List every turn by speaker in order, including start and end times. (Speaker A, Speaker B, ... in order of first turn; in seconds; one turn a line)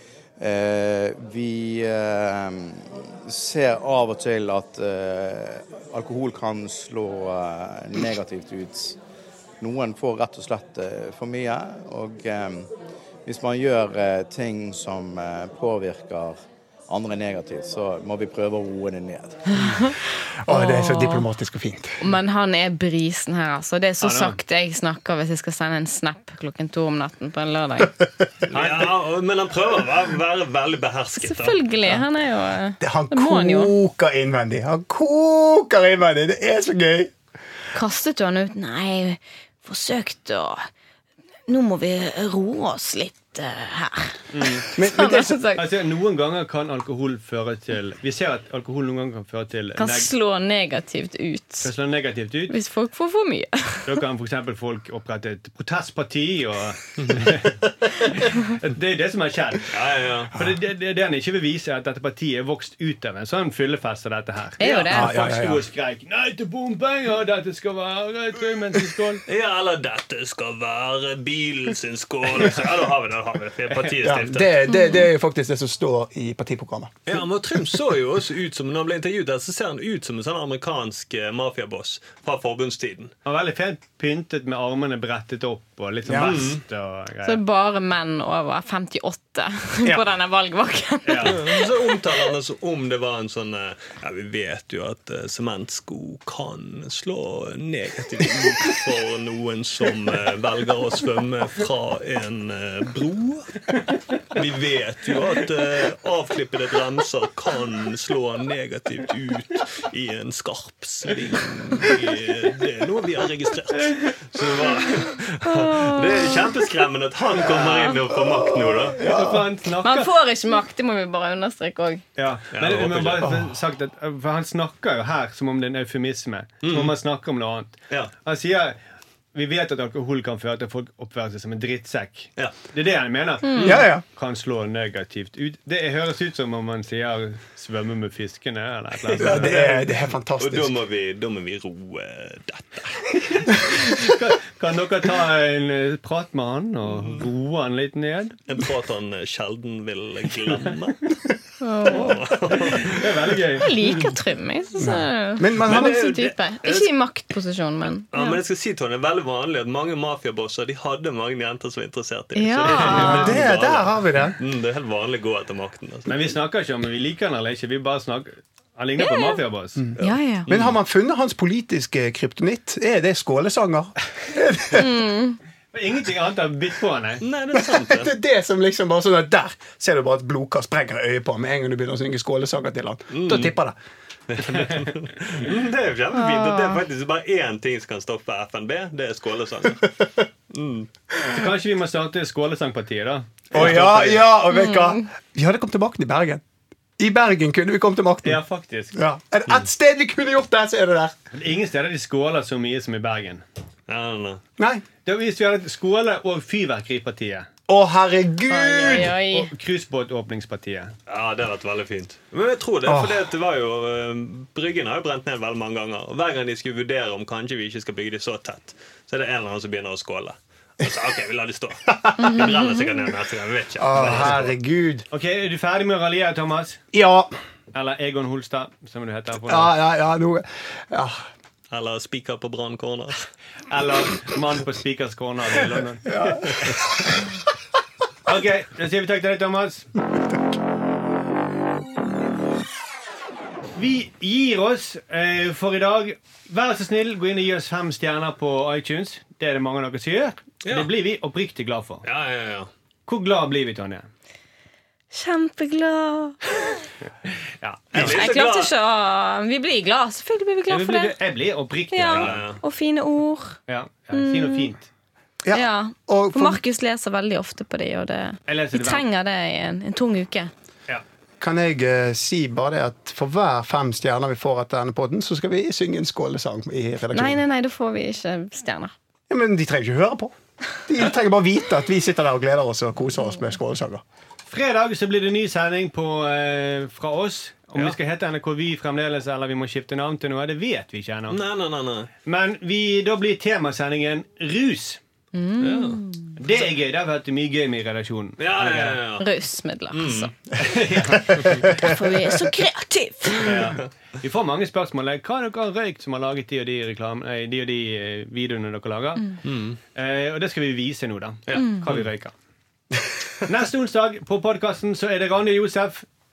Speaker A: 0.4-9.0
Speaker A: 9.6-12.7
Speaker A: 13.2-19.4
Speaker B: 19.5-19.9
Speaker C: 20.4-22.0
Speaker B: 20.5-21.2
Speaker B: 22.0-27.9
Speaker D: 24.0-24.4
Speaker E: 28.5-31.6
Speaker D: 28.5-28.9
Speaker B: 31.2-33.7
Speaker C: 32.8-37.1
Speaker B: 37.7-40.7
Speaker B: 41.5-45.7
Speaker D: 44.3-44.6
Speaker C: 44.8-45.4
Speaker D: 45.5-50.1
Speaker B: 49.8-51.7
Speaker D: 51.6-52.5
Speaker B: 52.5-54.0
Speaker D: 53.9-59.7
Speaker E: 57.0-57.3
Speaker E: 59.7-60.4
Speaker D: 60.3-69.2
Speaker B: 64.6-65.1
Speaker C: 64.9-65.6
Speaker E: 69.3-74.5
Speaker C: 74.0-77.2
Speaker B: 74.7-75.0
Speaker E: 77.1-83.1
Speaker D: 83.2-87.4
Speaker C: 86.0-86.5
Speaker E: 86.1-86.6
Speaker B: 87.2-92.3
Speaker D: 91.0-91.4
Speaker E: 91.2-103.5
Speaker E: 104.3-119.0
Speaker B: 115.5-116.4
Speaker C: 118.3-119.5
Speaker D: 118.9-120.1
Speaker B: 119.8-122.0
Speaker D: 122.2-128.8
Speaker E: 122.5-123.4
Speaker E: 126.6-126.9
Speaker D: 129.3-139.9
Speaker B: 133.5-133.7
Speaker C: 133.6-134.0
Speaker C: 139.1-140.7
Speaker E: 139.1-139.6
Speaker E: 140.4-144.0
Speaker D: 143.6-148.4
Speaker E: 146.9-147.2
Speaker E: 148.5-151.2
Speaker B: 151.6-152.2
Speaker E: 151.9-153.4
Speaker D: 152.6-154.1
Speaker B: 153.6-158.4
Speaker C: 154.8-156.0
Speaker E: 155.6-156.9
Speaker E: 158.1-166.3
Speaker B: 162.3-163.3
Speaker C: 162.9-164.4
Speaker D: 166.1-169.9
Speaker B: 169.0-169.4
Speaker B: 170.0-170.4
Speaker E: 170.0-170.8
Speaker C: 170.5-175.0
Speaker B: 174.8-175.4
Speaker D: 175.7-177.2
Speaker E: 177.2-178.1
Speaker C: 177.5-183.7
Speaker E: 183.1-183.5
Speaker E: 184.3-190.9
Speaker B: 186.2-186.8
Speaker D: 191.2-194.3
Speaker C: 193.5-196.4
Speaker B: 194.5-195.0
Speaker C: 197.0-198.4
Speaker D: 198.2-198.9
Speaker C: 198.9-201.1
Speaker D: 201.3-203.4
Speaker E: 203.9-204.4
Speaker C: 204.6-204.8
Speaker D: 205.0-207.5
Speaker C: 207.7-209.1
Speaker B: 208.5-209.5
Speaker D: 208.8-210.9
Speaker E: 211.1-224.5
Speaker C: 212.8-213.3
Speaker C: 223.8-225.1
Speaker D: 225.1-226.8
Speaker C: 226.9-227.3
Speaker D: 227.7-229.7
Speaker C: 229.4-231.2
Speaker E: 231.7-233.3
Speaker D: 233.7-236.7
Speaker C: 236.1-237.2
Speaker D: 238.2-239.9
Speaker D: 243.8-252.0
Speaker E: 250.6-250.9
Speaker E: 252.0-252.7
Speaker D: 253.1-254.1
Speaker B: 255.1-256.4
Speaker D: 257.2-258.2
Speaker E: 257.9-258.7
Speaker B: 257.9-261.1
Speaker D: 260.7-262.5
Speaker B: 261.9-263.6
Speaker E: 262.1-262.6
Speaker D: 263.7-264.9
Speaker B: 264.1-264.7
Speaker C: 265.4-266.6
Speaker B: 265.5-270.5
Speaker D: 268.5-269.0
Speaker C: 271.4-277.4
Speaker B: 277.1-278.9
Speaker C: 279.3-284.0
Speaker D: 284.5-291.4
Speaker E: 291.3-292.1
Speaker D: 292.2-295.0
Speaker B: 295.3-296.4
Speaker E: 295.6-296.0
Speaker D: 296.4-299.0
Speaker E: 298.4-299.2
Speaker B: 299.2-300.3
Speaker E: 299.9-300.3
Speaker D: 300.6-301.9
Speaker C: 301.2-301.6
Speaker B: 301.6-303.5
Speaker D: 303.4-309.4
Speaker E: 309.4-309.8
Speaker D: 309.9-312.3
Speaker E: 311.5-312.1
Speaker B: 311.6-311.8
Speaker D: 313.4-316.1